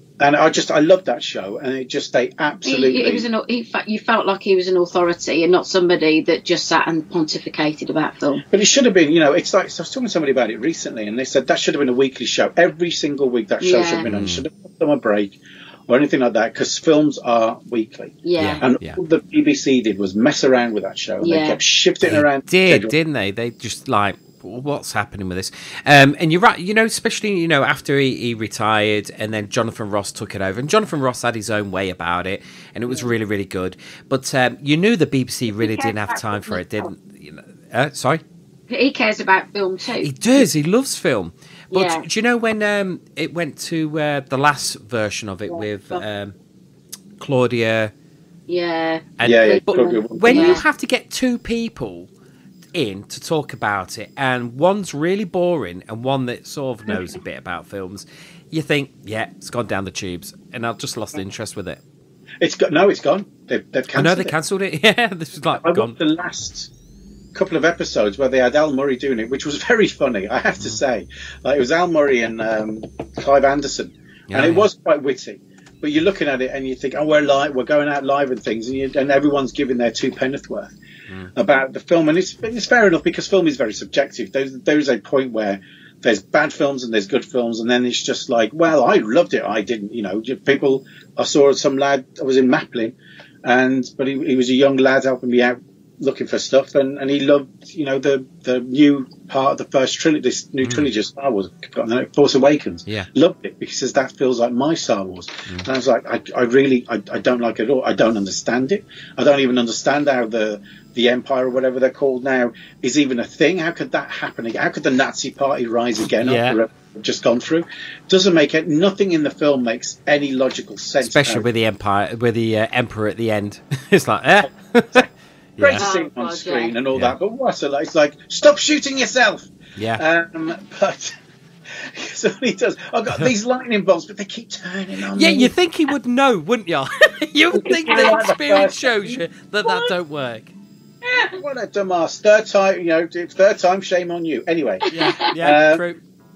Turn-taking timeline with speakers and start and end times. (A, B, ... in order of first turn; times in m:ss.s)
0:00.2-0:03.3 A
0:02.6-0:08.4 B
0:08.5-0:15.4 A
0:13.6-0:14.1 B
0:14.0-0:14.4 C
0:15.9-0:22.9 A
0:18.2-0:18.6 B
0:18.4-0:19.0 C
0:21.2-0:21.6 B
0:22.0-0:38.2 C
0:35.6-0:36.9 B
0:38.7-0:40.1 B
0:40.0-0:46.4 C
0:41.7-0:42.0 B
0:45.5-0:46.0 B
0:47.2-0:47.9 C
0:48.5-0:50.6 B
0:49.2-0:49.6 C
0:49.2-0:50.6 A
0:50.1-0:52.1 C
0:52.7-1:01.8 C
1:02.4-1:04.3 A
1:03.9-1:06.0 C
1:05.5-1:06.7 A
1:07.3-1:20.7 A
1:14.3-1:14.7 C
1:21.4-2:01.5 A
1:40.6-1:40.9 C
1:56.2-1:56.6 C
2:01.0-2:05.1 C
2:04.9-2:11.1 A
2:05.6-2:05.8 C
2:05.8-2:06.8 B
2:09.8-2:10.0 C
2:11.7-2:15.5 A
2:15.2-2:20.5 C
2:17.6-2:19.2 A
2:17.9-2:18.2 B
2:19.6-2:19.9 B
2:21.1-2:21.4 B
2:21.3-2:25.8 A
2:24.9-2:26.0 C
2:24.9-2:25.3 B